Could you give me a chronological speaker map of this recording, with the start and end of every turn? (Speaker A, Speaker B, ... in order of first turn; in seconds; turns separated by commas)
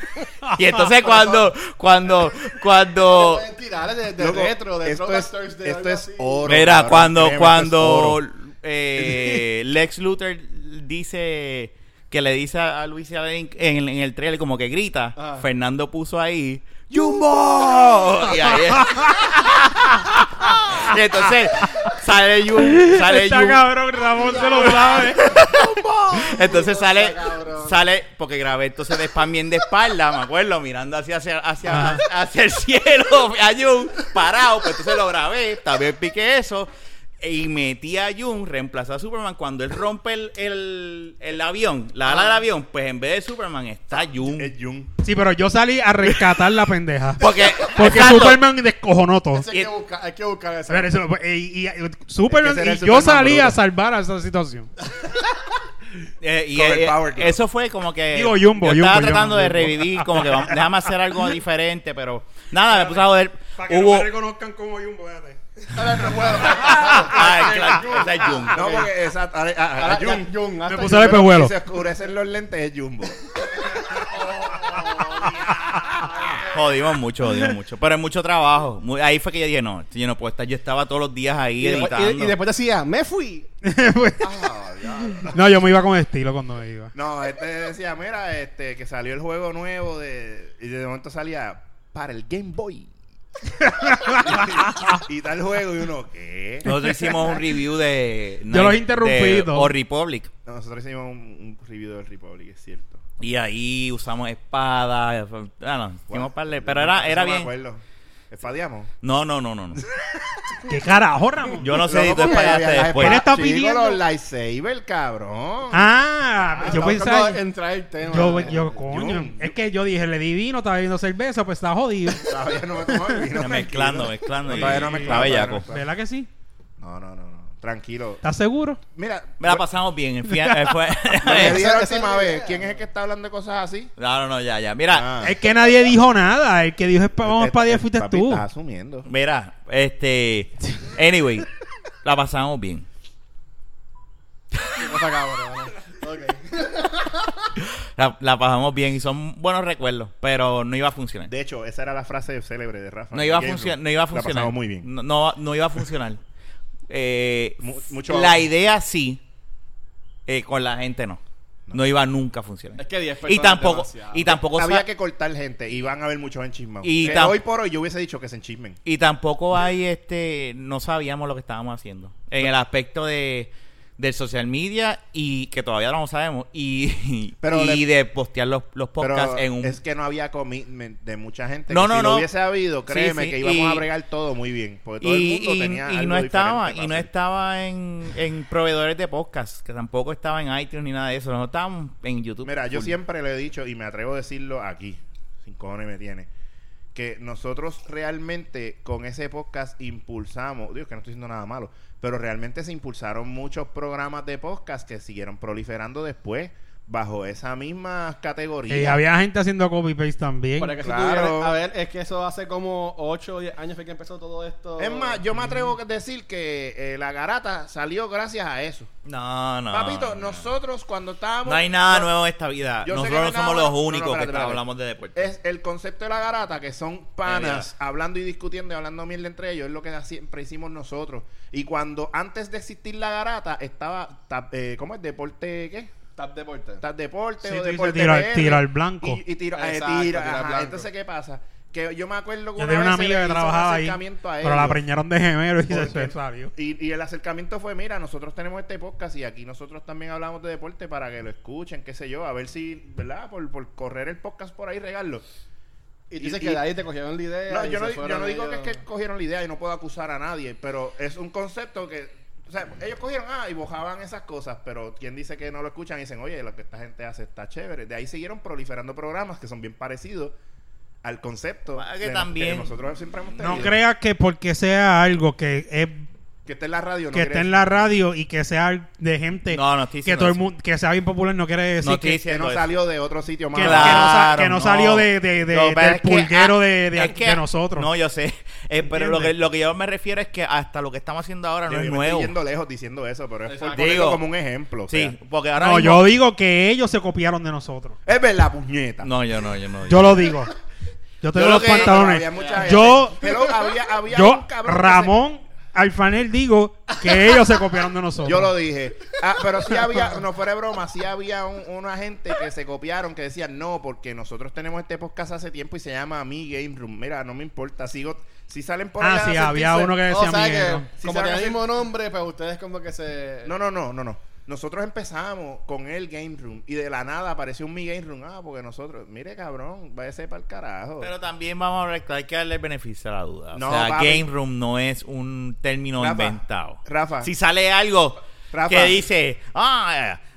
Speaker A: 0.5-3.5, Speaker B: 1.1-1.4, Speaker B: 3.0-6.4, Speaker C: 4.2-8.2, Speaker A: 6.5-23.6, Speaker C: 9.0-9.4, Speaker B: 15.2-15.5, Speaker D: 18.3-19.4, Speaker D: 21.6-21.9, Speaker D: 22.6-25.5, Speaker B: 24.2-27.8, Speaker A: 24.4-44.5, Speaker D: 31.7-32.0, Speaker B: 42.1-42.4, Speaker C: 44.3-44.9, Speaker D: 45.0-49.5, Speaker A: 47.2-48.4, Speaker B: 49.3-50.9, Speaker D: 50.7-54.7, Speaker C: 52.3-53.6, Speaker A: 56.2-64.1, Speaker C: 56.5-57.4, Speaker D: 58.1-60.7, Speaker D: 62.7-67.8, Speaker B: 65.7-68.8, Speaker A: 66.9-68.9, Speaker C: 68.5-70.3, Speaker B: 69.8-71.3, Speaker D: 70.7-71.5, Speaker C: 70.9-73.3, Speaker B: 74.0-76.6, Speaker A: 76.5-82.4, Speaker D: 77.3-77.5, Speaker B: 81.6-83.5, Speaker D: 83.6-84.3, Speaker C: 84.2-85.4, Speaker D: 85.2-86.9, Speaker C: 86.9-92.9, Speaker D: 93.6-95.0, Speaker C: 94.2-96.7, Speaker A: 96.6-100.3, Speaker D: 96.7-97.4, Speaker D: 98.5-99.7, Speaker C: 100.5-103.0, Speaker A: 103.2-107.5, Speaker C: 106.1-108.9, Speaker A: 109.0-109.8, Speaker C: 109.9-110.6, Speaker D: 110.7-111.8, Speaker A: 111.6-113.2, Speaker C: 111.8-115.9, Speaker D: 112.8-114.0, Speaker D: 115.7-117.4, Speaker C: 116.4-117.0, Speaker B: 116.7-118.8, Speaker D: 118.1-122.3, Speaker C: 118.7-119.5, Speaker C: 122.2-125.9, Speaker D: 122.9-123.3, Speaker A: 123.3-125.7, Speaker D: 124.5-126.3, Speaker C: 126.8-128.2, Speaker D: 128.2-128.8, Speaker C: 128.9-129.6, Speaker A: 129.4-131.7, Speaker D: 130.2-130.8, Speaker C: 131.2-133.9, Speaker B: 131.3-132.8, Speaker A: 134.0-135.1, Speaker C: 134.9-135.4, Speaker D: 135.2-138.4, Speaker C: 137.2-139.1, Speaker A: 139.1-141.5, Speaker A: 142.0-142.9, Speaker B: 144.8-147.3, Speaker A: 147.6-151.3, Speaker C: 151.3-154.9, Speaker A: 153.1-156.2, Speaker A: 156.9-159.2, Speaker C: 157.6-158.5, Speaker A: 160.3-164.9, Speaker B: 162.8-164.3, Speaker C: 164.5-168.8, Speaker A: 166.8-167.4, Speaker A: 168.8-179.8, Speaker C: 177.4-177.9, Speaker C: 179.0-187.1, Speaker A: 181.7-182.3, Speaker A: 182.9-183.8, Speaker A: 185.0-192.9, Speaker C: 192.4-196.3, Speaker C: 196.9-209.0, Speaker D: 208.7-210.8, Speaker B: 210.6-215.3, Speaker C: 210.8-211.6, Speaker C: 214.8-218.9, Speaker A: 219.1-220.4, Speaker C: 219.7-222.1, Speaker A: 221.5-225.3, Speaker C: 222.8-224.6, Speaker C: 225.2-235.9, Speaker A: 227.3-227.7, Speaker B: 236.2-236.8, Speaker C: 236.8-244.8, Speaker D: 237.4-239.2, Speaker B: 239.6-240.9, Speaker D: 242.6-246.5, Speaker C: 245.7-255.2, Speaker B: 256.1-258.8, Speaker C: 256.2-256.6, Speaker C: 257.5-270.4, Speaker C: 271.0-273.8, Speaker A: 271.8-272.7, Speaker D: 273.4-276.1, Speaker C: 276.5-277.5, Speaker D: 277.1-282.2, Speaker A: 279.5-280.4, Speaker A: 281.8-282.7, Speaker C: 282.3-284.2, Speaker D: 283.5-287.9, Speaker A: 283.6-292.3, Speaker D: 288.9-289.3, Speaker C: 291.7-295.1, Speaker B: 293.5-294.1, Speaker A: 293.7-294.2, Speaker A: 294.9-296.0, Speaker D: 295.6-298.0, Speaker C: 298.1-299.1, Speaker A: 299.0-300.2, Speaker D: 299.9-300.5, Speaker D: 301.2-303.4, Speaker A: 301.4-302.0, Speaker C: 301.4-305.1, Speaker B: 302.3-303.0, Speaker D: 304.1-308.5, Speaker C: 308.2-320.0, Speaker D: 319.0-320.9, Speaker B: 320.1-323.5, Speaker C: 321.0-321.6, Speaker C: 323.4-331.1, Speaker A: 331.0-340.3, Speaker C: 333.5-334.3, Speaker C: 336.0-337.3, Speaker C: 338.5-339.0